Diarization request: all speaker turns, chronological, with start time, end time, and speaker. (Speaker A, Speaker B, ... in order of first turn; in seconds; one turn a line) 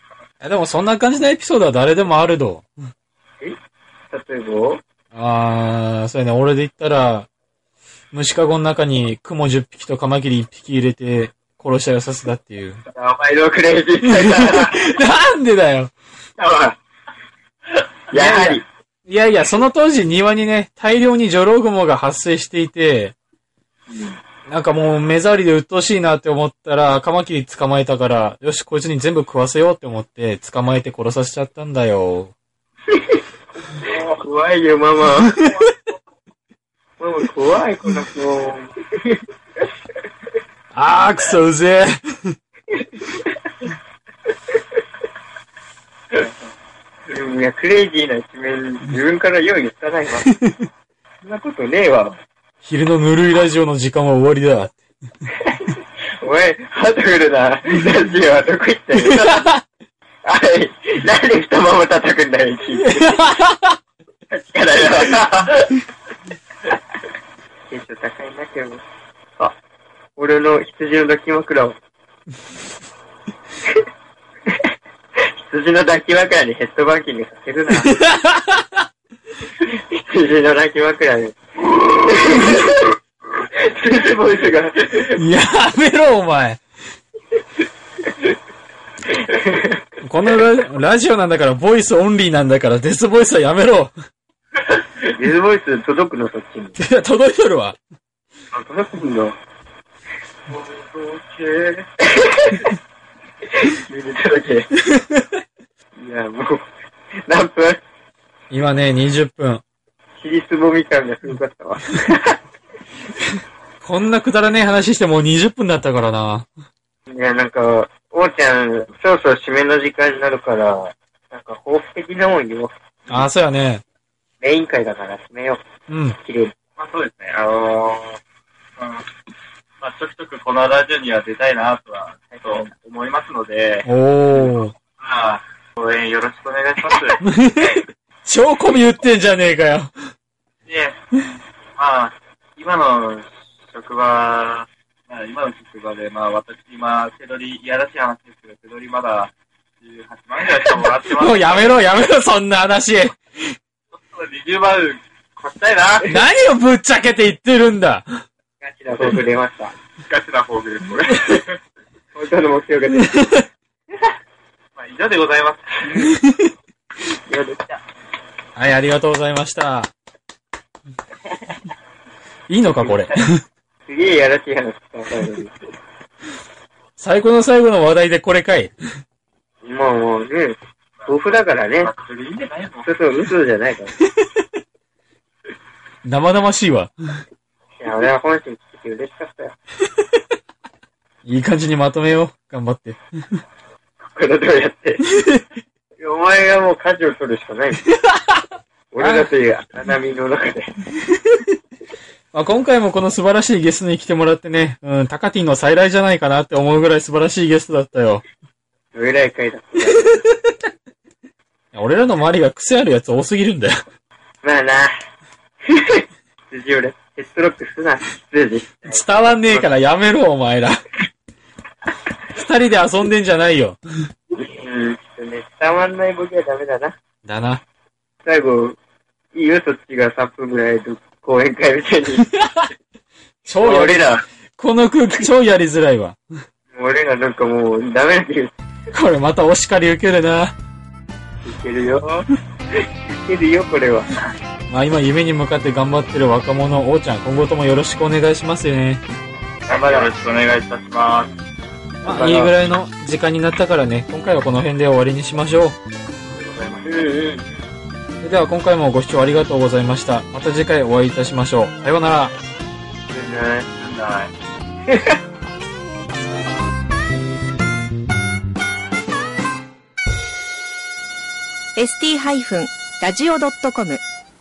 Speaker A: 0.4-2.7
Speaker B: 4.1-4.8
Speaker A: 5.1-7.3
Speaker A: 8.1-12.8
Speaker B: 12.9-14.9
Speaker A: 14.0-15.9
Speaker B: 16.4-16.8
Speaker B: 18.1-18.6
Speaker A: 18.1-23.1
Speaker B: 23.9-24.2
Speaker A: 24.5-32.3
Speaker B: 33.8-35.5
Speaker B: 37.0-39.2
Speaker A: 40.7-42.4
Speaker B: 43.0-43.2
Speaker B: 47.1-50.3
Speaker B: 51.2-52.2
Speaker A: 52.6-54.8
Speaker B: 55.6-59.5
Speaker A: 59.0-59.6
Speaker B: 60.2-63.2
Speaker A: 62.7-63.8
Speaker B: 64.3-65.7
Speaker B: 67.7-68.8
Speaker B: 70.2-71.8
Speaker B: 75.2-77.9
Speaker A: 77.8-78.8
Speaker B: 79.6-83.0
Speaker B: 83.5-85.1
Speaker A: 85.1-86.6
Speaker B: 89.2-89.8
Speaker A: 90.0-93.9
Speaker B: 95.1-96.8
Speaker A: 96.8-97.8
Speaker B: 98.5-99.4
Speaker C: 100.5-101.8
Speaker B: 102.1-102.7
Speaker B: 103.6-104.7
Speaker A: 104.9-105.2
Speaker B: 106.0-106.7
Speaker B: 107.2-107.8
Speaker A: 108.5-109.6
Speaker B: 110.2-112.4
Speaker A: 113.8-116.5
Speaker B: 117.1-123.2
Speaker A: 123.1-123.8
Speaker B: 124.4-125.6
Speaker A: 125.9-126.2
Speaker B: 126.2-126.5
Speaker C: 126.8-128.2
Speaker C: 128.8-129.0
Speaker C: 129.8-137.8
Speaker A: 133.8-134.7
Speaker A: 137.2-139.9
Speaker C: 140.7-141.0
Speaker C: 141.8-149.3
Speaker C: 149.8-151.8
Speaker A: 151.1-153.5
Speaker C: 153.9-156.1
Speaker A: 156.0-158.2
Speaker B: 158.6-159.7
Speaker C: 160.1-161.6
Speaker B: 162.1-163.2
Speaker A: 163.1-163.4
Speaker C: 164.8-166.0
Speaker B: 165.8-166.2
Speaker B: 167.2-167.8
Speaker A: 168.6-169.9
Speaker A: 172.5-173.4
Speaker B: 172.8-173.1
Speaker B: 173.8-175.6
Speaker A: 177.0-178.7
Speaker B: 179.6-181.9
Speaker C: 181.0-182.9
Speaker B: 182.8-183.9
Speaker A: 186.0-186.9
Speaker B: 187.8-189.6
Speaker A: 191.2-193.0
Speaker B: 194.0-195.0
Speaker A: 195.0-195.4
Speaker B: 196.0-197.8
Speaker A: 198.1-198.3
Speaker B: 198.9-200.7
Speaker A: 199.0-199.3
Speaker A: 202.3-208.2
Speaker B: 208.9-210.2
Speaker A: 211.7-213.8
Speaker B: 214.4-214.9
Speaker B: 215.7-219.7
Speaker A: 218.8-220.8
Speaker A: 222.3-223.8
Speaker B: 224.3-226.9
Speaker A: 227.2-227.6
Speaker B: 228.2-228.8
Speaker B: 229.3-232.3
Speaker A: 232.2-232.7
Speaker A: 233.4-236.2
Speaker B: 233.6-234.2
Speaker B: 236.7-238.5
Speaker A: 238.9-240.5
Speaker B: 241.4-242.3
Speaker B: 243.1-244.1
Speaker A: 244.7-249.0
Speaker C: 249.7-251.3
Speaker B: 249.7-250.1
Speaker A: 252.0-255.8
Speaker B: 252.0-252.5
Speaker C: 256.3-257.1
Speaker B: 256.8-257.4
Speaker A: 258.2-262.3
Speaker C: 263.1-264.3
Speaker B: 263.2-263.6
Speaker D: 271.8-274.0